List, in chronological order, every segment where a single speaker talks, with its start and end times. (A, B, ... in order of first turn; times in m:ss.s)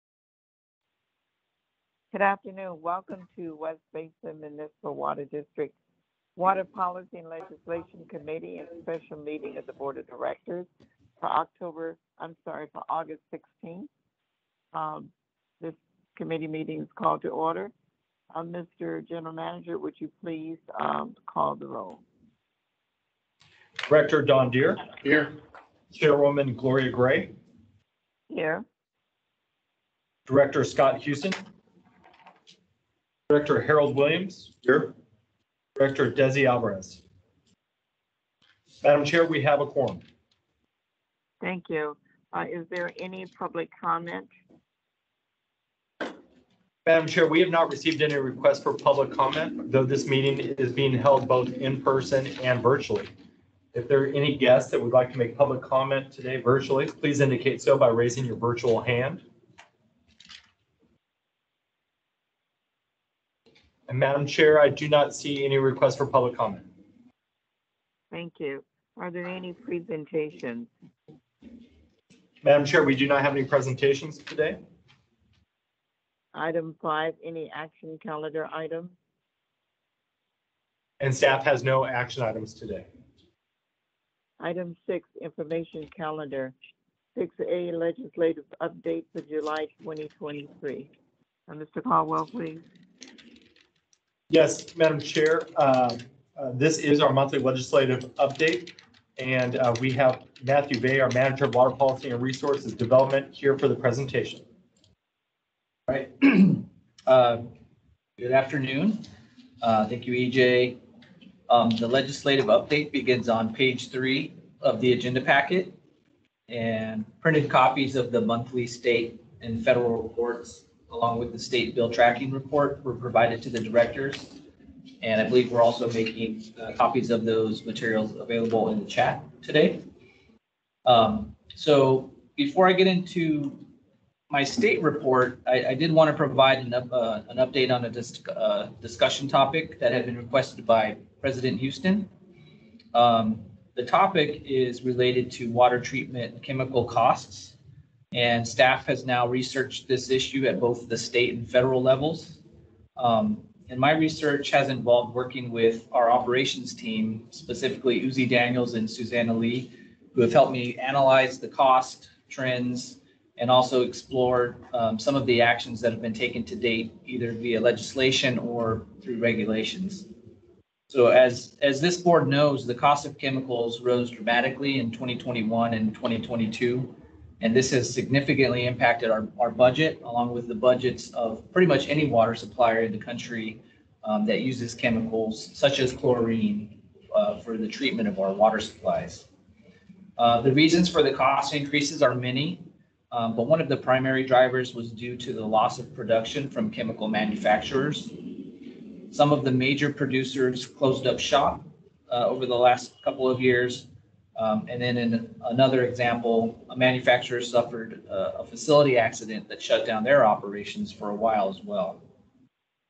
0:02.1-0:05.7 A
0:06.4-0:10.7 A
0:11.2-0:13.9 A
0:14.7-0:15.1 A
0:15.6-0:17.7 A
0:18.3-0:22.0 A
0:23.8-0:25.3 B
0:25.9-0:27.3 B
0:28.3-0:28.6 A
0:30.3-0:31.4 B
0:33.3-0:34.9 B
0:35.8-0:37.0 B
0:38.8-0:40.0 B
0:41.4-0:44.3 A
0:46.8-0:53.1 B
0:53.7-0:59.2 B
1:03.9-1:06.7 B
1:08.1-1:10.7 A
1:12.4-1:14.6 B
1:16.3-1:18.9 A
1:21.0-1:22.9 B
1:24.4-1:26.6 A
1:27.2-1:30.9 A
1:31.5-1:32.6 A
1:34.3-1:44.4 B
1:45.9-1:47.5 C
1:48.2-1:49.0 C
1:49.6-1:50.8 C
1:51.5-1:55.8 C
1:56.5-2:04.4 C
2:05.0-2:09.8 C
2:10.8-2:13.6 C
2:14.3-2:22.1 C
2:22.9-2:27.6 C
2:28.1-2:32.4 C
2:33.0-2:50.1 C
2:50.9-3:09.3 C
3:10.2-3:18.3 C
3:19.1-3:32.0 C